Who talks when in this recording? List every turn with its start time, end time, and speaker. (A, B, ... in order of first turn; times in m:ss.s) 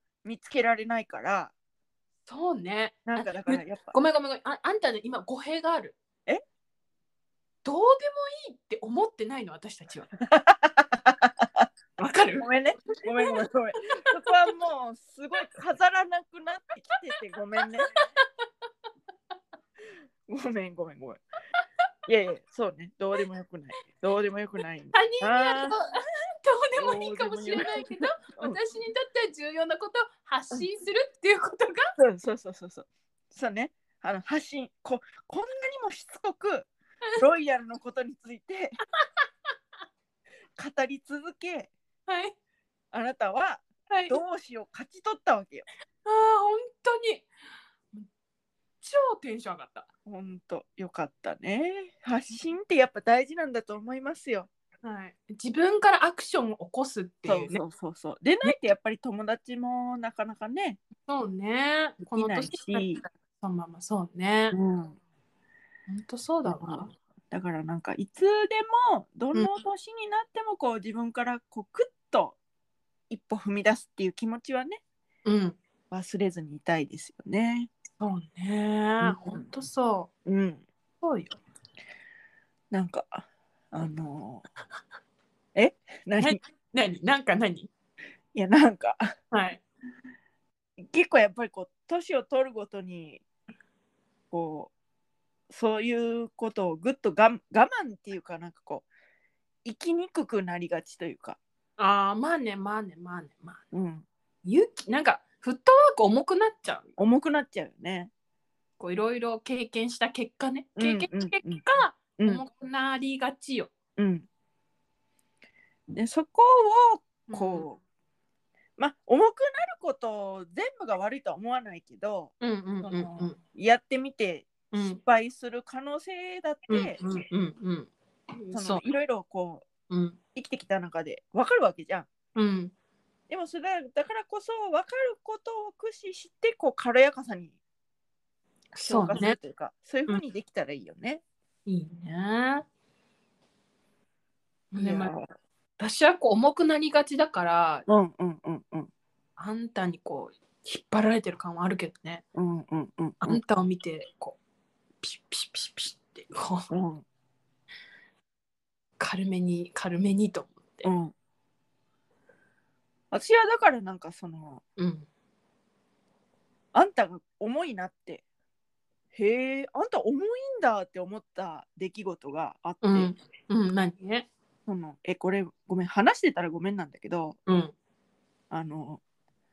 0:00.2-0:01.5 A
0:02.2-0:06.0 B
0:03.1-0:03.9 A
0:07.6-0:10.1 B
0:10.2-0:17.9 A
0:12.0-0:12.5 B
0:17.9-0:18.2 B
0:20.3-0:21.2 A
0:22.1-0:25.8 A
0:24.9-0:31.9 B
0:26.8-0:28.6 A
0:32.0-0:38.8 A
0:40.6-0:41.7 A
0:42.1-0:42.3 B
0:42.9-0:45.7 A
0:43.9-0:44.2 B
0:46.0-0:47.3 B
0:48.8-0:49.9 B
0:50.0-0:54.5 A
0:54.8-0:57.6 B
0:57.2-1:00.8 A
1:01.0-1:04.6 B
1:02.1-1:03.0 A
1:04.5-1:05.0 A
1:05.9-1:06.9 B
1:06.4-1:12.4 A
1:13.1-1:14.8 A
1:15.2-1:15.6 B
1:15.9-1:17.7 A
1:18.0-1:20.1 B
1:19.0-1:19.5 A
1:20.2-1:20.6 A
1:21.0-1:21.4 B
1:22.7-1:24.4 A
1:25.6-1:26.4 A
1:26.2-1:27.7 B
1:28.3-1:29.1 A
1:29.3-1:29.6 B
1:30.8-1:33.2 A
1:34.3-1:34.7 A
1:35.5-1:38.8 A
1:39.6-1:41.4 A
1:41.8-1:43.6 B
1:43.7-1:44.0 A
1:44.4-1:46.9 B
1:47.0-1:48.1 A
1:48.8-1:53.7 B
1:50.8-1:51.6 A
1:52.2-1:52.4 A
1:54.0-1:54.3 A
1:55.9-1:57.8 A
1:57.3-1:57.6 B
1:58.8-2:07.0 A
2:02.4-2:03.4 B
2:04.7-2:05.0 B
2:06.7-2:08.8 B
2:08.5-2:09.6 A
2:09.9-2:10.2 B
2:10.3-2:12.1 A
2:12.3-2:12.7 B
2:13.3-2:17.6 A
2:18.7-2:19.4 B
2:18.8-2:21.2 A
2:21.6-2:22.6 B
2:24.7-2:25.1 B
2:24.8-2:25.3 A
2:25.8-2:27.8 B
2:27.9-2:28.9 A
2:29.4-2:32.2 B
2:32.3-2:33.4 A
2:33.2-2:34.4 B
2:35.0-2:36.7 B
2:36.7-2:37.0 A
2:39.0-2:40.9 B
2:40.8-2:41.1 A
2:43.1-2:44.6 A
2:44.8-2:45.1 B
2:46.7-2:48.2 A
2:49.1-2:53.1 A
2:52.8-2:54.3 B
2:54.7-2:57.4 A
2:57.5-2:57.7 B
2:58.5-2:59.0 A